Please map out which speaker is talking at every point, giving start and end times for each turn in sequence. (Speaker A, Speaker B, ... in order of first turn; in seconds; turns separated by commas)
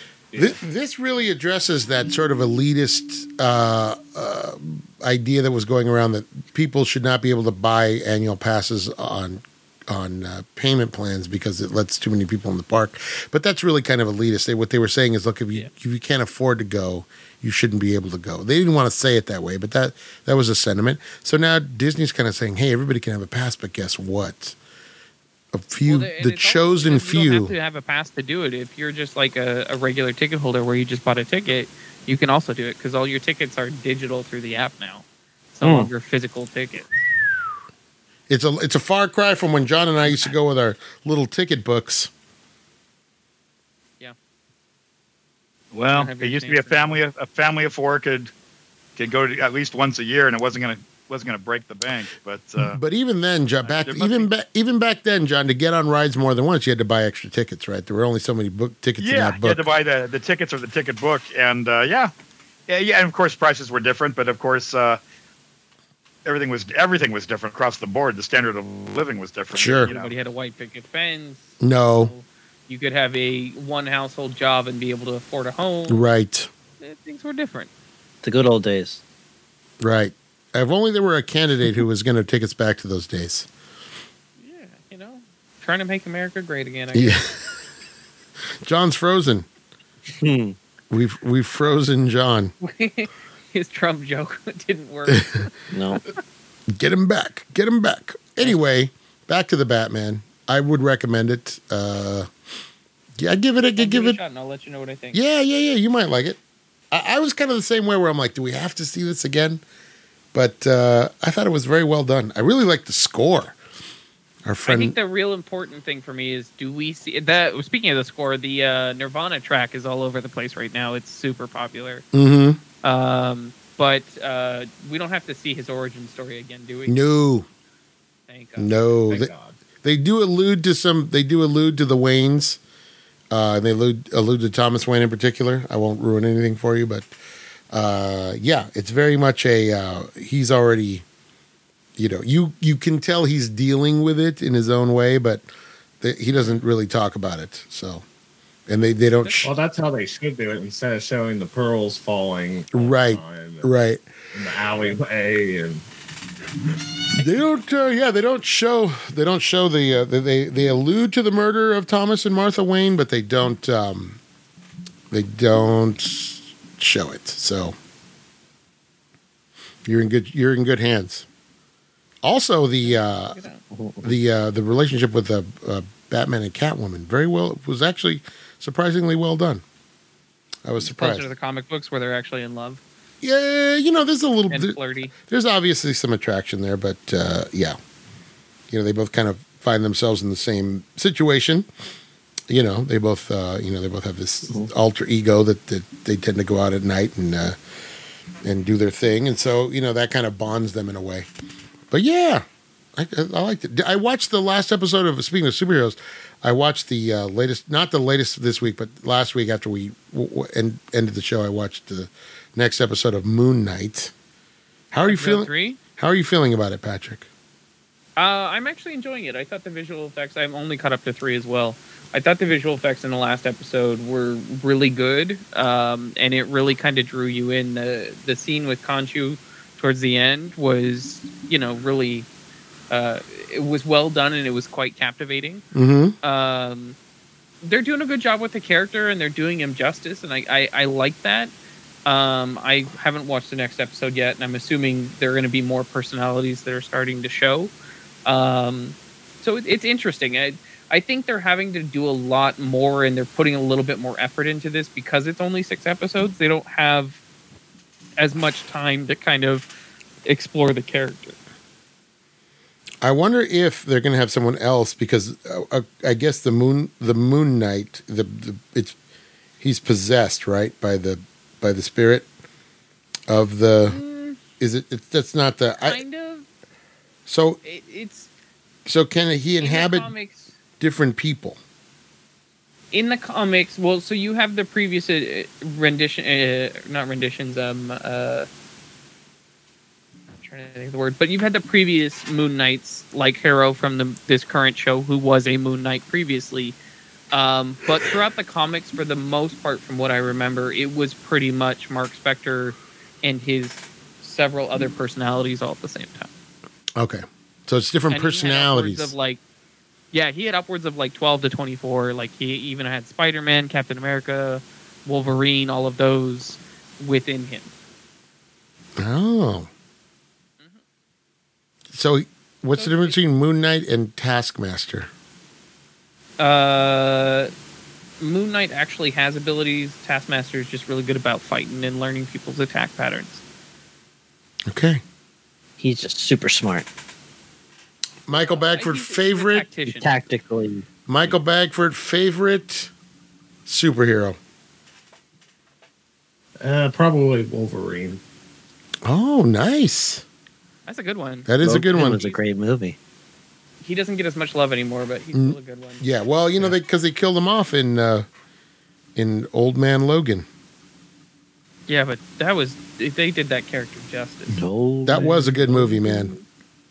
Speaker A: 0.3-0.6, Speaker B: 0.4-24.6, Speaker B: 25.5-27.5, Speaker C: 25.8-36.9, Speaker D: 35.6-35.9, Speaker B: 38.3-42.1, Speaker E: 45.7-48.3, Speaker C: 45.9-47.0, Speaker E: 49.0-52.8, Speaker B: 52.6-59.6, Speaker E: 53.7-54.3, Speaker E: 59.0-62.1, Speaker E: 62.7-65.0, Speaker E: 66.2-70.1, Speaker B: 69.5-69.9, Speaker C: 69.8-76.0, Speaker B: 71.6-72.1, Speaker B: 75.9-76.5, Speaker C: 76.8-77.7, Speaker D: 78.2-79.0, Speaker B: 79.8-83.5, Speaker C: 84.4-87.2, Speaker B: 86.9-87.4, Speaker B: 88.6-89.5, Speaker D: 90.1-90.6, Speaker B: 90.9-92.5, Speaker C: 92.6-95.5, Speaker B: 95.1-95.4, Speaker D: 95.7-96.0, Speaker B: 96.7-102.3, Speaker B: 103.2-104.2, Speaker C: 103.8-105.2, Speaker B: 105.1-106.4, Speaker B: 106.9-109.6, Speaker B: 110.3-113.6, Speaker B: 114.4-115.0, Speaker C: 114.6-122.0, Speaker B: 122.1-122.6, Speaker C: 122.8-127.1, Speaker B: 126.9-127.5, Speaker C: 128.3-128.7, Speaker B: 128.6-129.3, Speaker A: 129.1-129.6, Speaker B: 129.8-132.6, Speaker B: 133.3-137.1, Speaker B: 137.7-141.0, Speaker B: 142.0-145.4, Speaker B: 146.0-148.0, Speaker B: 148.7-149.5, Speaker C: 149.2-149.5, Speaker A: 149.4-153.7, Speaker B: 152.7-154.0, Speaker A: 154.3-155.8, Speaker B: 157.2-164.2, Speaker B: 165.1-167.7, Speaker B: 169.8-171.2, Speaker B: 172.2-173.4, Speaker C: 172.8-173.6, Speaker D: 173.7-174.1, Speaker B: 174.0-179.6, Speaker B: 180.6-181.3, Speaker C: 180.8-182.8, Speaker B: 183.2-187.8, Speaker C: 184.5-185.1, Speaker B: 188.7-191.7, Speaker B: 192.5-197.6, Speaker B: 198.4-201.3, Speaker B: 201.9-202.4, Speaker B: 202.9-214.1, Speaker B: 214.9-217.3, Speaker C: 215.0-215.8, Speaker C: 218.2-232.3, Speaker C: 232.9-235.6, Speaker B: 235.7-236.2, Speaker C: 236.2-236.9, Speaker C: 237.6-241.5, Speaker C: 242.0-247.7, Speaker C: 248.2-257.2, Speaker C: 258.2-259.7, Speaker C: 260.2-261.4, Speaker B: 263.0-268.9, Speaker B: 269.6-272.3, Speaker B: 273.3-274.0, Speaker C: 273.8-274.4, Speaker B: 274.6-276.0, Speaker C: 275.8-276.4, Speaker B: 277.3-277.6, Speaker C: 277.6-278.3, Speaker B: 278.9-280.1, Speaker C: 279.6-280.5, Speaker B: 280.8-281.6, Speaker C: 282.9-288.5, Speaker C: 290.4-296.8, Speaker C: 297.3-306.3, Speaker B: 306.9-309.1, Speaker C: 308.1-309.4, Speaker C: 310.1-317.7, Speaker B: 319.0-319.7, Speaker B: 321.9-325.1, Speaker C: 322.7-323.2, Speaker C: 326.4-327.5, Speaker C: 328.2-333.4, Speaker B: 334.7-335.0, Speaker D: 335.8-336.9, Speaker B: 338.3-339.7, Speaker C: 338.4-340.2, Speaker D: 339.9-340.8, Speaker B: 341.1-342.9, Speaker B: 343.6-344.4, Speaker A: 346.6-348.2, Speaker B: 349.0-350.2, Speaker C: 350.9-352.4, Speaker B: 351.5-352.2, Speaker D: 351.6-353.0, Speaker C: 353.8-356.1, Speaker B: 355.3-358.2, Speaker B: 359.1-360.4, Speaker C: 361.9-364.6, Speaker D: 364.5-366.3, Speaker B: 365.0-366.3